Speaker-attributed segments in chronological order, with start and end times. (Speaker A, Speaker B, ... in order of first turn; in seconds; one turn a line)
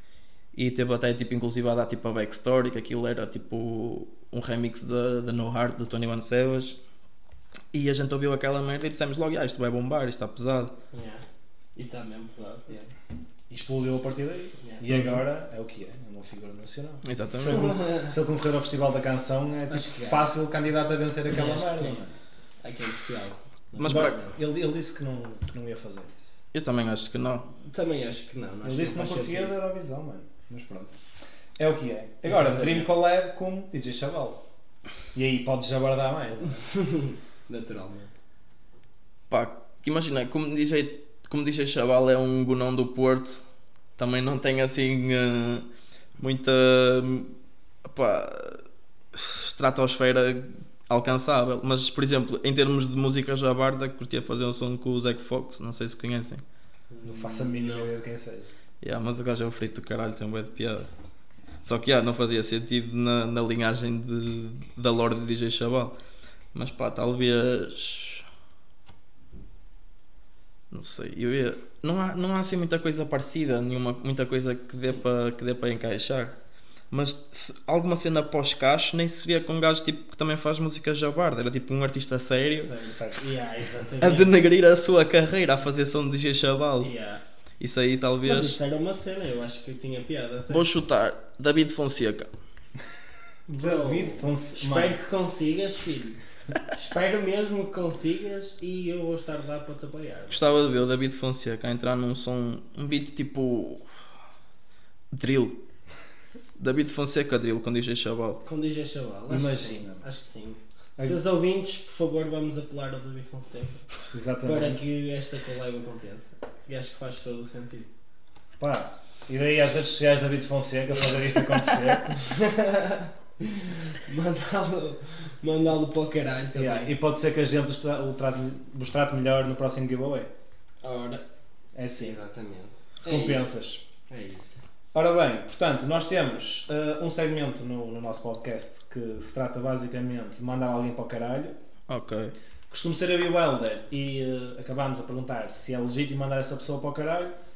Speaker A: 0.5-6.8
Speaker A: 7.7-10.7
Speaker B: 10.9-11.2
Speaker B: 11.8-12.8
Speaker C: 13.5-22.1
Speaker A: 17.0-17.8
Speaker B: 17.5-18.1
Speaker B: 19.7-20.3
Speaker B: 21.3-22.0
Speaker B: 22.6-24.4
Speaker A: 23.8-24.2
Speaker C: 23.9-26.4
Speaker A: 26.5-27.5
Speaker B: 27.6-29.5
Speaker C: 28.6-30.9
Speaker C: 31.6-34.4
Speaker B: 32.2-33.0
Speaker C: 35.1-36.6
Speaker B: 36.6-38.1
Speaker A: 39.3-43.4
Speaker A: 44.0-45.6
Speaker A: 46.2-47.3
Speaker A: 47.8-48.6
Speaker A: 49.1-56.4
Speaker B: 56.9-57.9
Speaker C: 57.0-58.5
Speaker A: 58.8-60.9
Speaker A: 61.6-65.9
Speaker A: 66.5-68.2
Speaker A: 70.7-76.3
Speaker A: 76.9-82.7
Speaker B: 82.6-84.3
Speaker C: 83.0-83.2
Speaker A: 84.0-86.9
Speaker B: 86.8-87.2
Speaker A: 87.6-88.6
Speaker B: 88.2-90.6
Speaker A: 90.5-92.3
Speaker B: 93.5-100.6
Speaker C: 93.5-95.0
Speaker A: 100.3-103.8
Speaker A: 105.1-105.6
Speaker A: 106.6-108.4
Speaker B: 108.4-113.8
Speaker C: 109.3-110.0
Speaker C: 114.1-114.8
Speaker B: 114.4-117.9
Speaker C: 118.6-122.2
Speaker B: 122.2-126.9
Speaker C: 126.5-130.3
Speaker B: 130.8-131.2
Speaker C: 131.7-132.2
Speaker B: 131.9-133.5
Speaker C: 133.0-133.8
Speaker B: 134.1-134.6
Speaker C: 134.9-141.5
Speaker A: 141.9-142.3
Speaker C: 142.7-147.3